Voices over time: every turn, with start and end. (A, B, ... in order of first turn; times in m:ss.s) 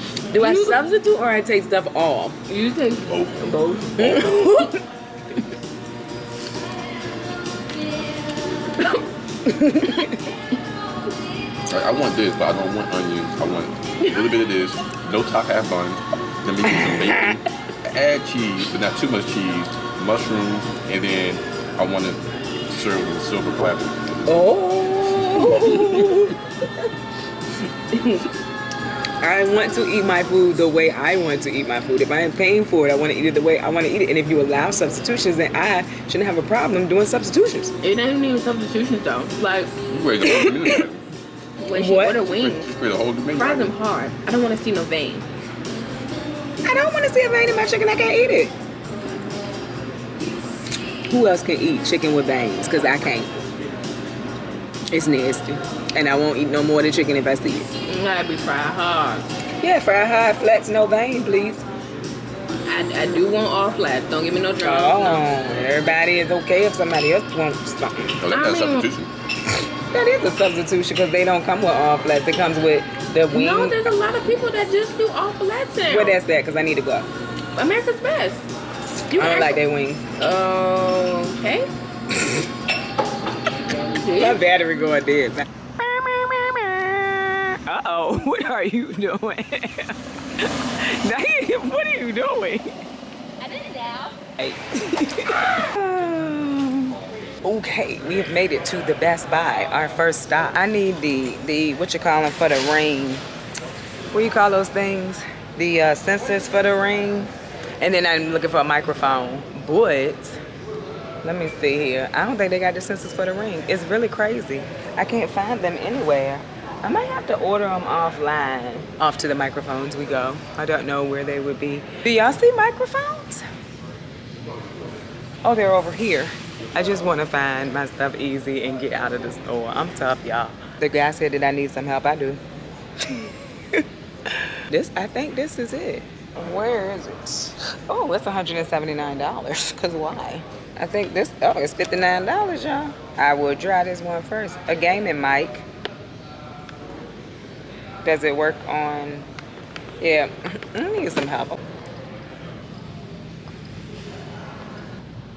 0:00.3-0:02.4 A
0:00.3-0:00.8 B
0:02.4-0:04.6 B
0:03.1-0:04.7 C
0:04.0-0:04.8 A
0:09.5-0:10.1 A
0:11.7-0:24.5 C
0:16.7-0:17.4 A
0:24.2-0:26.4 A
0:25.3-0:26.1 B
0:29.2-0:37.7 A
0:37.8-0:39.7 B
0:39.9-0:41.0 C
0:40.2-0:40.8 A
0:41.6-0:42.7 B
0:41.7-0:42.2 A
0:42.2-0:43.7 C
0:43.3-0:45.3 B
0:46.6-0:48.5 A
0:51.1-0:53.3 A
0:54.9-0:57.7 A
0:57.8-0:59.3 B
0:59.6-1:01.6 A
1:02.6-1:05.4 B
1:04.6-1:08.2 A
1:08.2-1:09.1 C
1:08.3-1:08.9 B
1:09.9-1:13.9 A
1:13.3-1:16.2 B
1:15.8-1:17.1 A
1:17.5-1:19.6 B
1:19.2-1:20.0 A
1:20.2-1:21.7 B
1:23.8-1:24.4 B
1:24.1-1:32.7 A
1:33.4-1:34.1 B
1:34.4-1:43.2 A
1:44.1-1:50.4 A
1:51.2-2:03.4 A
2:05.4-2:12.4 A
2:13.1-2:25.6 A
2:28.0-2:29.3 A
2:30.0-2:31.6 A